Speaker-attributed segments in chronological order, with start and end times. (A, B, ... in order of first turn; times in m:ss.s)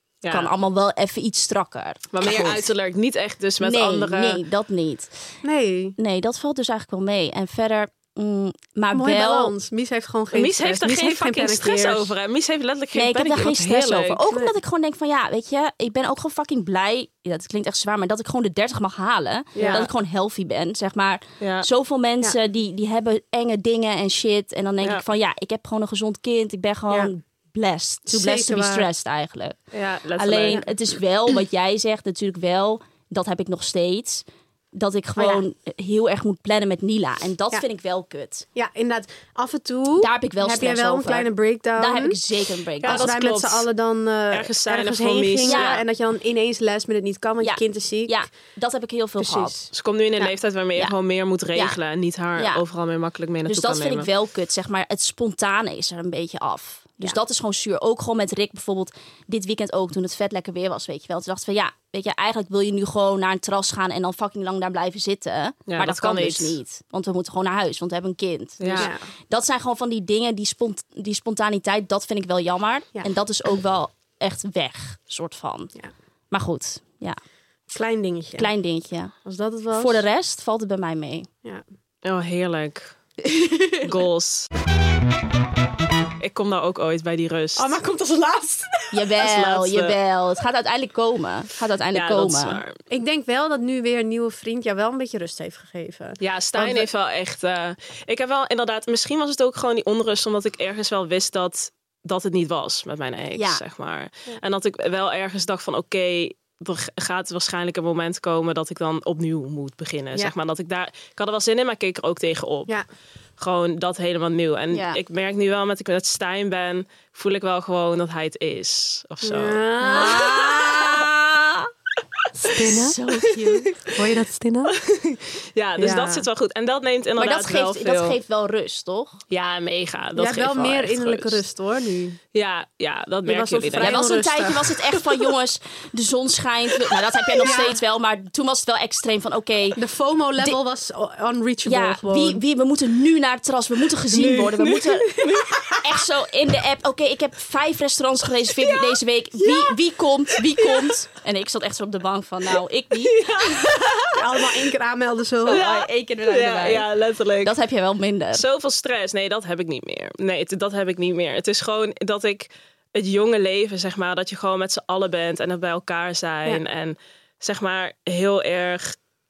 0:00.2-0:00.5 A
0:00.3-0:02.7 B
0:02.1-0:04.4 A
0:03.6-0:05.1 B
0:05.4-0:06.0 C
0:06.0-0:09.5 B
0:08.9-0:12.1 C
0:10.3-0:14.2 A
0:12.9-0:29.6 B
0:19.6-0:19.9 C
0:19.6-0:19.9 A
0:21.4-0:21.7 A
0:28.1-0:28.9 C
0:29.7-0:30.6 A
0:30.2-0:38.5 B
0:35.2-0:35.4 C
0:38.6-0:42.2 C
0:40.0-0:43.1 B
0:42.8-0:48.2 C
0:42.8-0:43.7 A
0:44.3-0:45.8 A
0:45.4-0:45.8 B
0:47.4-0:49.6 B
0:49.2-0:49.7 C
0:49.7-0:54.1 A
0:52.4-0:52.6 B
0:53.5-1:15.7 B
1:05.7-1:06.6 A
1:08.6-1:08.9 A
1:08.8-1:09.0 C
1:16.3-1:17.2 B
1:17.7-1:18.5 C
1:18.4-1:19.1 B
1:19.2-1:20.0 C
1:19.7-1:21.3 B
1:22.0-1:23.0 A
1:23.7-1:24.5 A
1:26.2-1:27.8 A
1:27.6-1:28.9 C
1:28.9-1:32.6 B
1:29.2-1:30.0 A
1:31.9-1:32.8 A
1:32.9-1:36.9 C
1:36.2-1:52.8 A
1:43.4-1:43.6 B
1:53.4-2:01.1 A
1:54.7-1:55.0 B
1:59.2-2:00.5 C
1:59.8-2:01.7 B
2:02.4-2:03.0 C
2:02.5-2:03.8 B
2:03.9-2:04.8 C
2:04.8-2:08.2 A
2:05.8-2:06.3 C
2:07.2-2:09.2 B
2:09.3-2:11.4 A
2:10.2-2:12.2 C
2:12.3-2:14.1 A
2:13.3-2:14.8 C
2:13.8-2:19.8 B
2:17.4-2:17.8 C
2:19.8-2:22.4 C
2:21.6-2:25.1 B
2:24.1-2:25.8 A
2:25.8-2:33.3 B
2:33.0-2:34.2 A
2:34.1-2:35.6 C
2:35.5-2:36.9 B
2:35.5-2:37.6 A
2:37.4-2:38.4 B
2:38.3-2:49.0 A